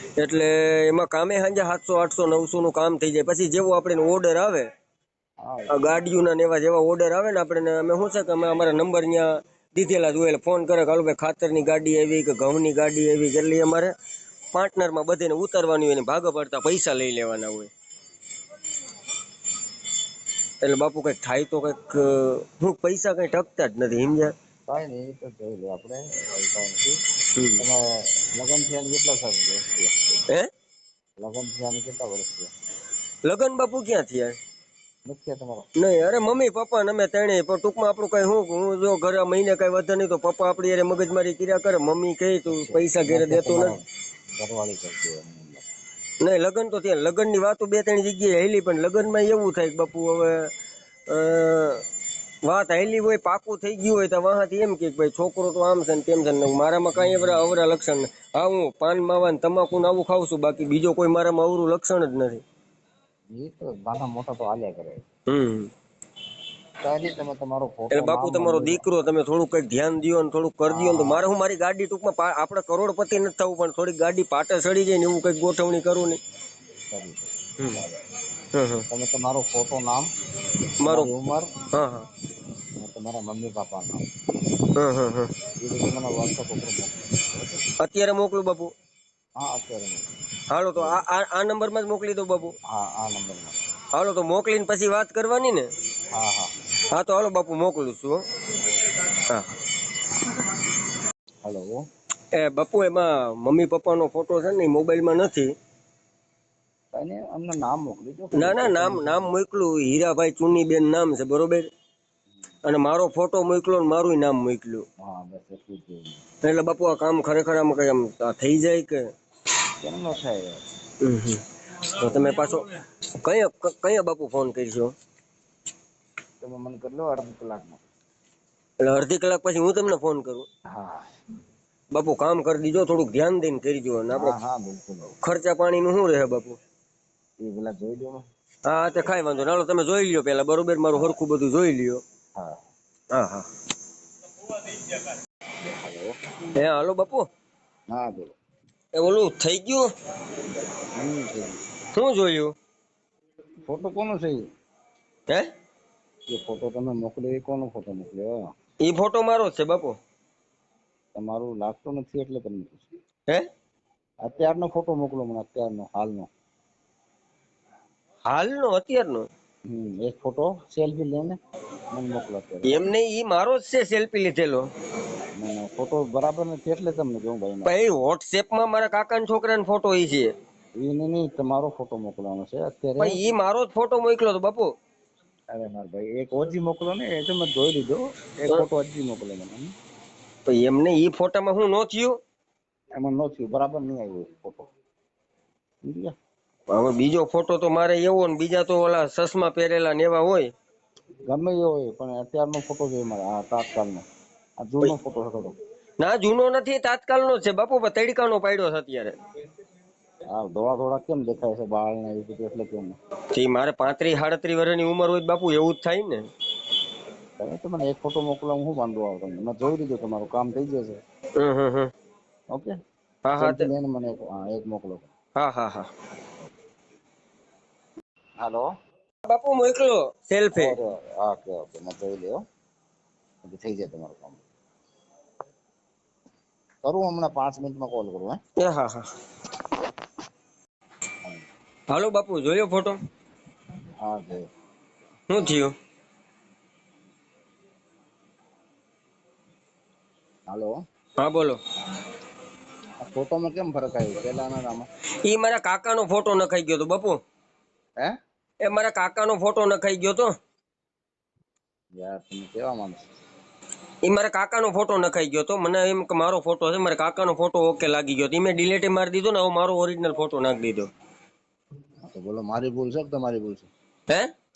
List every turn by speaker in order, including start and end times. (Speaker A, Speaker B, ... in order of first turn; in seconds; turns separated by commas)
Speaker A: 0.2-4.7, Speaker B: 5.4-6.0, Speaker A: 5.7-13.9, Speaker A: 14.5-17.7, Speaker A: 20.6-24.3, Speaker B: 24.7-27.0, Speaker A: 27.4-27.6, Speaker B: 27.6-30.2, Speaker B: 31.2-32.5, Speaker A: 33.2-34.4, Speaker B: 35.0-35.6, Speaker A: 35.8-43.7, Speaker B: 42.5-43.8, Speaker B: 44.4-45.6, Speaker A: 46.2-50.5, Speaker A: 51.1-51.8, Speaker A: 52.4-62.4, Speaker B: 57.0-57.4, Speaker B: 63.3-65.0, Speaker A: 65.3-65.7, Speaker B: 66.8-68.8, Speaker A: 67.9-76.2, Speaker B: 70.7-71.2, Speaker B: 76.9-78.0, Speaker A: 78.5-78.8, Speaker B: 78.9-80.1, Speaker A: 80.8-81.1, Speaker B: 80.8-81.5, Speaker A: 81.7-82.1, Speaker B: 82.8-84.1, Speaker A: 84.8-85.3, Speaker B: 85.6-87.6, Speaker A: 87.8-88.7, Speaker B: 89.4-90.1, Speaker A: 90.5-92.5, Speaker B: 90.7-91.0, Speaker B: 92.7-93.6, Speaker A: 93.9-95.7, Speaker B: 96.1-96.5, Speaker A: 96.9-98.2, Speaker A: 99.2-99.5, Speaker B: 101.4-101.8, Speaker A: 102.3-105.5, Speaker B: 106.9-109.3, Speaker A: 108.3-111.7, Speaker A: 112.6-114.8, Speaker B: 115.0-116.2, Speaker A: 116.4-119.0, Speaker B: 119.8-120.6, Speaker A: 121.0-122.7, Speaker A: 123.2-124.9, Speaker B: 126.4-127.8, Speaker A: 128.8-130.5, Speaker B: 130.7-131.1, Speaker A: 131.9-134.3, Speaker B: 134.1-135.2, Speaker A: 135.2-136.6, Speaker B: 137.4-138.2, Speaker A: 138.6-142.0, Speaker B: 140.9-141.2, Speaker B: 142.3-142.6, Speaker A: 143.1-143.4, Speaker B: 145.6-146.1, Speaker A: 146.5-147.3, Speaker B: 147.9-148.4, Speaker A: 148.9-149.8, Speaker B: 150.9-151.6, Speaker A: 151.9-152.5, Speaker B: 153.7-154.4, Speaker B: 156.3-158.4, Speaker A: 158.8-159.9, Speaker B: 161.1-162.9, Speaker B: 164.2-166.3, Speaker A: 168.2-169.2, Speaker B: 169.7-171.4, Speaker B: 171.9-172.9, Speaker A: 172.6-174.7, Speaker B: 175.4-177.7, Speaker A: 177.6-180.3, Speaker B: 180.8-183.2, Speaker A: 183.0-184.7, Speaker B: 185.5-189.7, Speaker A: 190.4-192.2, Speaker B: 193.0-194.7, Speaker B: 195.8-196.1, Speaker A: 196.7-200.5, Speaker B: 201.3-204.0, Speaker B: 204.6-205.6, Speaker A: 206.0-209.1, Speaker B: 210.3-213.0, Speaker A: 213.3-216.2, Speaker B: 217.4-221.0, Speaker A: 221.4-221.9, Speaker A: 223.2-223.7, Speaker B: 223.4-225.1, Speaker A: 225.3-225.9, Speaker B: 228.4-228.7, Speaker A: 229.2-230.7, Speaker B: 230.5-232.4, Speaker B: 233.4-234.4, Speaker B: 236.8-238.4, Speaker A: 238.6-239.1, Speaker A: 241.9-242.9, Speaker B: 244.0-244.4, Speaker A: 245.3-245.7, Speaker B: 250.5-250.7, Speaker A: 251.2-251.6, Speaker B: 253.0-254.9, Speaker A: 255.2-257.2, Speaker A: 258.6-260.3, Speaker B: 261.9-263.1, Speaker A: 264.0-270.9, Speaker B: 272.1-273.7